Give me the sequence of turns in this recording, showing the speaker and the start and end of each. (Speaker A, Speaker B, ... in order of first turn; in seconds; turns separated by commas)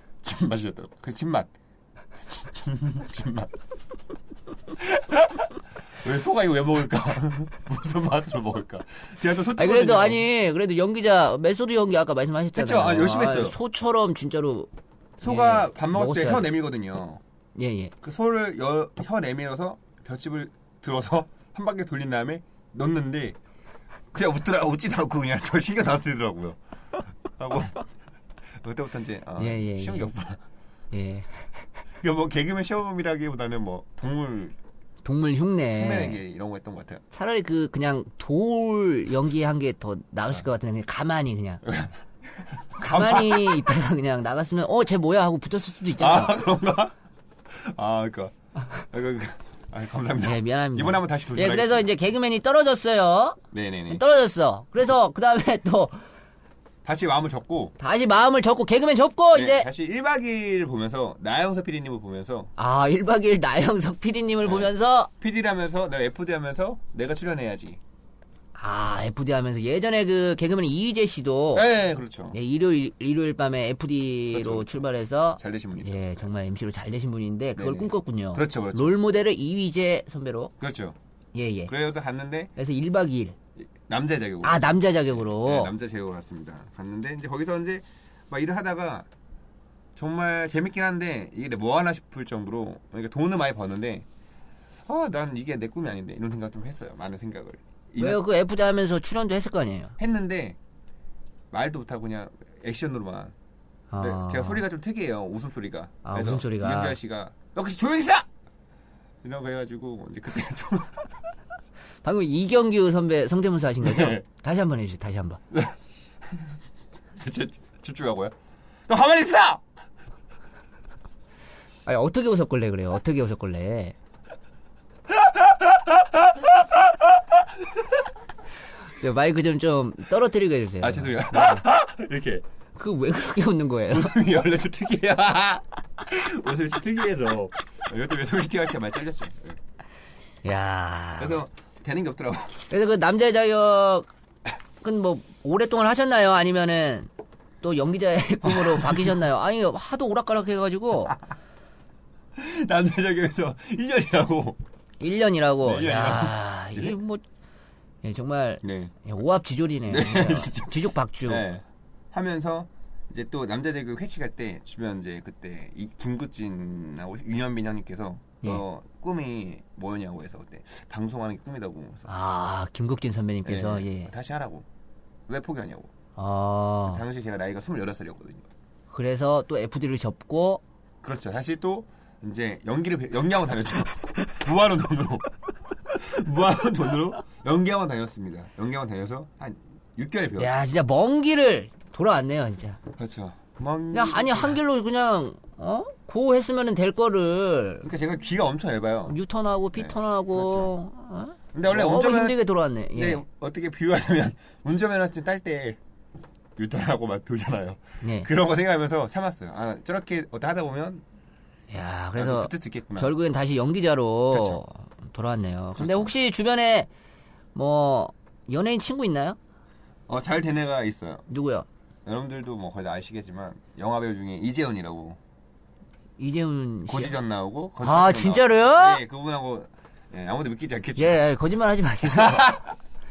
Speaker A: 0.2-1.5, Speaker A: 2.3-3.5, Speaker A: 4.8-5.5, Speaker A: 6.0-10.2, Speaker B: 9.6-14.7, Speaker A: 12.5-13.6, Speaker A: 15.2-17.2, Speaker B: 15.2-16.5, Speaker B: 17.6-17.9, Speaker A: 18.0-23.4, Speaker A: 24.1-26.6, Speaker A: 27.3-27.8, Speaker A: 28.6-30.4, Speaker B: 29.4-30.1, Speaker B: 30.9-31.4, Speaker A: 32.0-34.5, Speaker B: 35.0-36.2, Speaker A: 35.7-37.0, Speaker B: 37.1-41.6, Speaker A: 41.7-41.9, Speaker A: 42.7-43.7, Speaker B: 42.8-46.4, Speaker A: 46.0-46.9, Speaker A: 47.5-51.9, Speaker B: 50.2-53.4, Speaker A: 53.5-54.0, Speaker B: 53.9-56.0, Speaker A: 56.8-57.7, Speaker B: 57.8-59.7, Speaker A: 59.3-62.5, Speaker B: 62.6-65.1, Speaker A: 64.4-67.8, Speaker B: 68.5-71.7, Speaker A: 71.5-72.3, Speaker B: 72.3-80.5, Speaker A: 74.3-76.3, Speaker A: 77.5-79.0, Speaker A: 80.6-81.0, Speaker B: 81.3-81.7, Speaker A: 81.7-82.5, Speaker B: 82.5-83.3, Speaker A: 83.6-89.0, Speaker B: 84.4-85.7, Speaker A: 90.0-94.0, Speaker A: 94.8-98.2, Speaker B: 98.0-100.0, Speaker A: 100.0-100.6, Speaker A: 101.5-103.3, Speaker B: 103.9-104.6, Speaker A: 104.0-108.3, Speaker B: 106.0-107.0, Speaker A: 109.2-111.1, Speaker B: 112.0-115.4, Speaker A: 113.8-114.2, Speaker A: 117.1-118.3, Speaker A: 118.9-119.6, Speaker B: 121.8-123.9, Speaker A: 125.4-127.0, Speaker B: 129.0-131.6, Speaker A: 130.8-132.4, Speaker B: 132.8-134.1, Speaker A: 133.9-139.6, Speaker B: 140.4-141.4, Speaker A: 141.2-142.7, Speaker B: 142.7-144.1, Speaker B: 144.8-147.1, Speaker B: 147.6-151.2, Speaker A: 148.4-149.2, Speaker A: 152.4-154.6, Speaker B: 155.0-157.2, Speaker A: 155.6-156.9, Speaker B: 158.0-161.4, Speaker A: 158.6-158.9, Speaker A: 159.9-172.1, Speaker B: 172.1-174.1, Speaker A: 173.4-174.7, Speaker A: 175.3-175.9, Speaker B: 176.2-177.0, Speaker A: 176.9-178.4, Speaker B: 178.9-180.6, Speaker A: 181.0-190.6, Speaker B: 190.4-192.8, Speaker A: 193.0-194.6, Speaker B: 193.9-197.8, Speaker A: 197.8-199.2, Speaker B: 199.1-203.2, Speaker A: 199.7-200.7, Speaker A: 201.5-205.8, Speaker A: 206.6-211.0, Speaker B: 208.0-208.3, Speaker B: 211.7-216.9, Speaker A: 212.2-213.1, Speaker A: 214.3-214.6, Speaker A: 215.8-216.1, Speaker B: 217.5-219.4, Speaker A: 220.1-221.2, Speaker B: 221.3-221.7, Speaker A: 222.1-225.2, Speaker B: 226.2-227.1, Speaker A: 226.9-231.2, Speaker B: 227.8-229.0, Speaker B: 231.0-232.6, Speaker A: 232.0-232.7